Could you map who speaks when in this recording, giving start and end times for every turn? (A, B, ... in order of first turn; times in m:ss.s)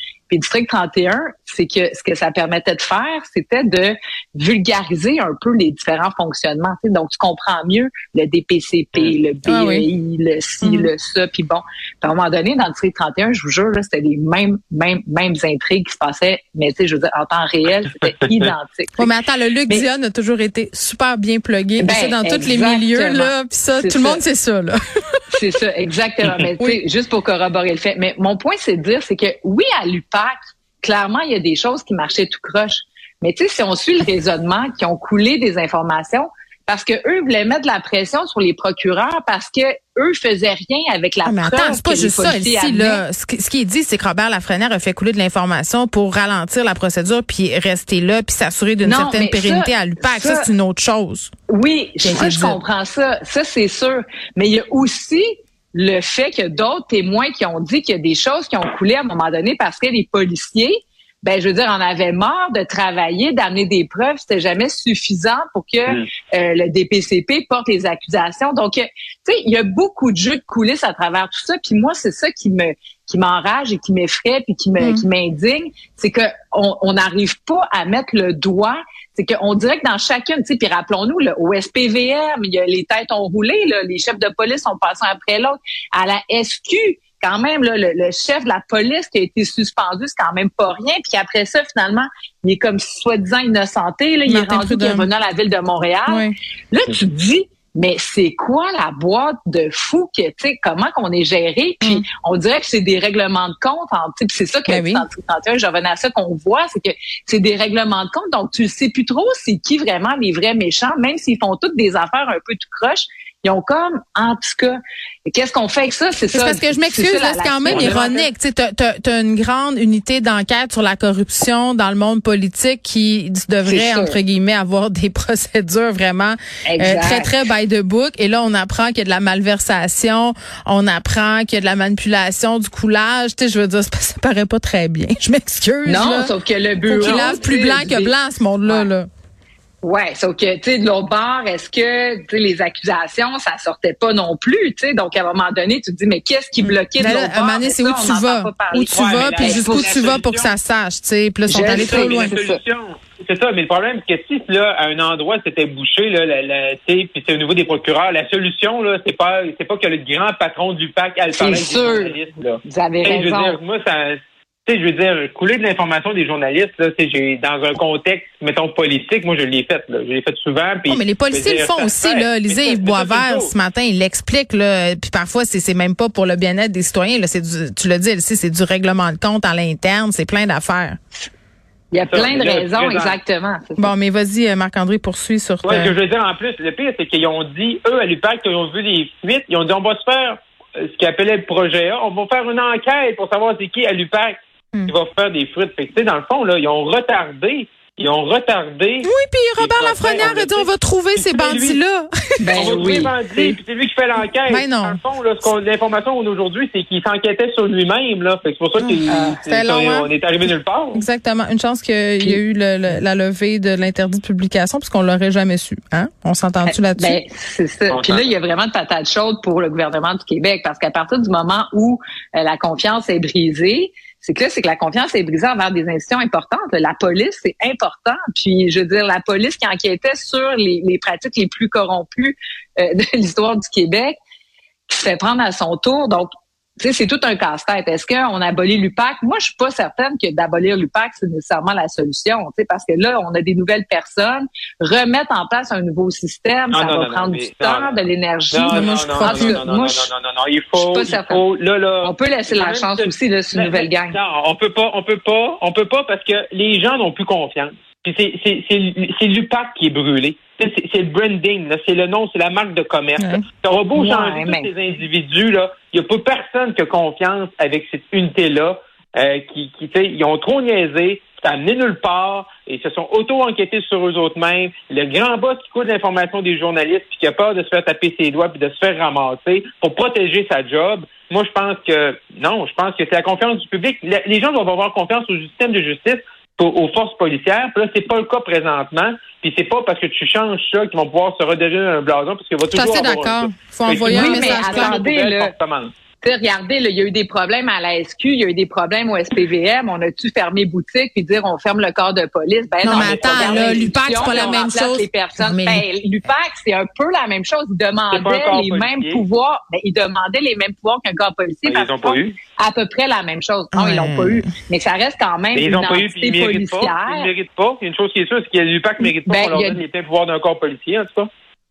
0:00.3-0:19.1 A
0:09.5-0:09.8 B
0:10.6-0:10.9 B
0:19.0-0:25.2 B
0:21.8-0:24.2 A
0:25.3-0:43.0 A
0:41.3-0:51.3 B
0:48.8-0:50.5 A
0:51.5-1:58.0 A
0:52.0-0:52.6 B
1:34.3-1:35.1 B
1:44.7-1:45.0 B
1:56.3-2:16.3 B
1:57.7-1:58.3 C
2:03.6-2:04.2 A
2:06.7-2:07.4 A
2:15.8-2:18.9 A
2:16.9-2:17.4 C
2:17.0-2:19.1 B
2:19.8-2:30.2 A
2:26.6-2:32.3 B
2:28.8-2:30.6 C
2:31.5-2:32.6 A
2:31.6-2:53.5 C
2:41.4-2:43.6 A
2:50.9-3:01.0 B
3:01.9-3:03.9 A
3:02.1-3:03.2 C
3:03.8-3:05.9 B
3:05.6-3:14.3 C
3:14.9-3:21.8 C
3:19.0-3:22.3 B
3:22.4-3:23.1 A
3:22.6-3:31.0 C
3:24.5-3:25.0 B
3:28.8-3:30.1 B
3:29.1-3:29.4 A
3:30.9-3:37.2 B
3:36.6-3:54.2 A
3:37.9-3:38.3 C
3:54.9-4:10.1 A
4:06.7-4:08.0 C
4:08.5-4:55.9 C
4:08.7-4:09.6 B
4:10.8-4:11.4 A
4:12.0-4:14.2 A
4:23.9-4:24.7 A
4:52.7-4:54.9 B
4:54.0-4:55.5 A
4:56.2-5:17.3 A
5:02.8-5:05.8 B
5:02.9-5:04.7 C
5:08.1-5:09.2 C
5:11.6-5:12.3 C
5:13.7-5:14.4 B
5:15.5-5:21.3 C
5:19.1-5:19.8 A